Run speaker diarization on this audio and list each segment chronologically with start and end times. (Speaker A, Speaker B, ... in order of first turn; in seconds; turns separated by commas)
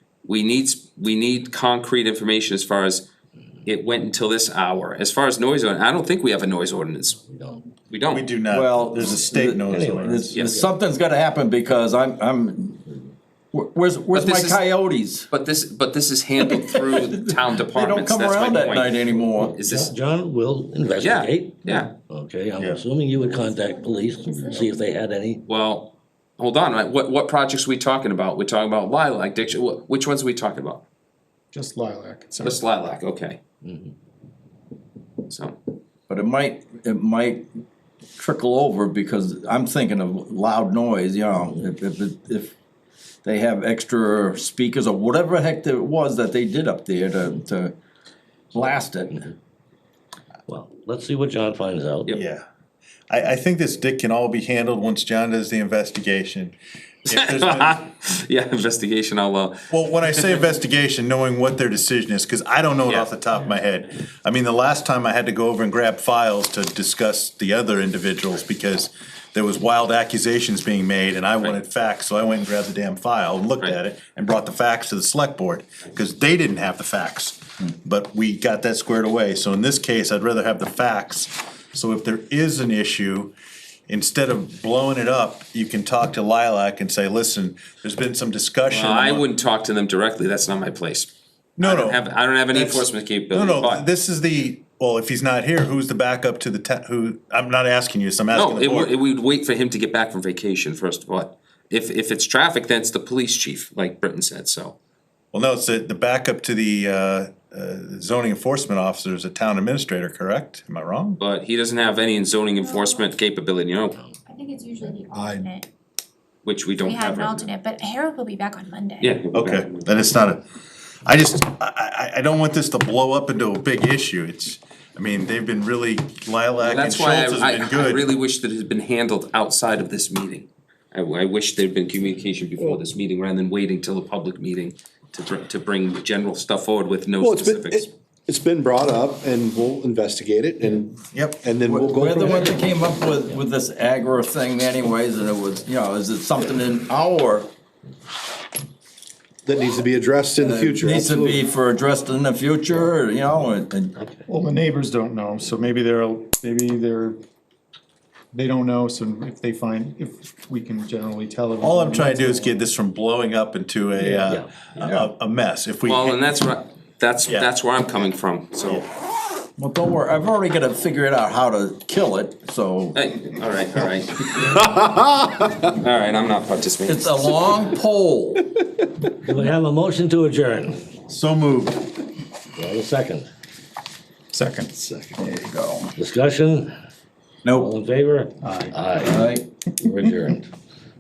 Speaker A: 0.2-3.1, Speaker A: 3.7-7.2, Speaker B: 7.3-7.7, Speaker A: 7.9-8.3, Speaker C: 8.1-10.3, Speaker D: 8.5-12.9, Speaker B: 9.6-10.7, Speaker A: 10.3-10.6, Speaker D: 13.5-15.3, Speaker A: 14.1-14.7, Speaker A: 15.3-19.9, Speaker D: 16.4-17.1, Speaker D: 17.7-19.6, Speaker B: 19.4-25.4, Speaker A: 21.0-21.9, Speaker C: 22.6-22.9, Speaker E: 23.1-24.9, Speaker A: 25.5-30.9, Speaker F: 31.5-32.6, Speaker A: 32.4-33.4, Speaker B: 33.6-33.9, Speaker A: 35.3-35.6, Speaker D: 36.1-37.5, Speaker D: 38.2-42.5, Speaker D: 43.2-47.7, Speaker D: 48.5-49.3, Speaker B: 50.5-52.1, Speaker C: 52.1-52.4, Speaker C: 53.1-56.5, Speaker C: 57.1-57.8, Speaker A: 57.1-60.4, Speaker C: 59.7-83.3, Speaker C: 83.9-89.3, Speaker A: 88.7-93.9, Speaker C: 91.6-98.9, Speaker A: 98.3-104.8, Speaker C: 105.3-111.2, Speaker A: 111.2-114.0, Speaker E: 112.6-113.1, Speaker E: 114.3-115.7, Speaker G: 115.1-115.5, Speaker A: 116.4-117.5, Speaker E: 116.8-119.2, Speaker A: 119.0-119.9, Speaker C: 119.3-120.4, Speaker C: 121.0-128.1, Speaker A: 126.6-137.9, Speaker G: 137.2-142.6, Speaker C: 141.1-141.5, Speaker D: 141.7-147.5, Speaker G: 149.5-151.4, Speaker D: 150.4-153.9, Speaker F: 154.3-157.2, Speaker F: 158.3-162.6, Speaker C: 161.6-166.2, Speaker D: 164.8-165.1, Speaker A: 165.9-168.8, Speaker D: 169.6-173.0, Speaker A: 172.9-174.5, Speaker A: 175.8-177.3, Speaker D: 176.9-178.5, Speaker B: 179.2-180.8, Speaker C: 181.1-181.9, Speaker B: 182.6-183.3, Speaker F: 184.3-184.7, Speaker D: 184.8-185.9, Speaker B: 186.0-186.7, Speaker D: 187.4-187.7, Speaker B: 187.5-190.5, Speaker F: 188.4-188.8, Speaker D: 189.0-189.4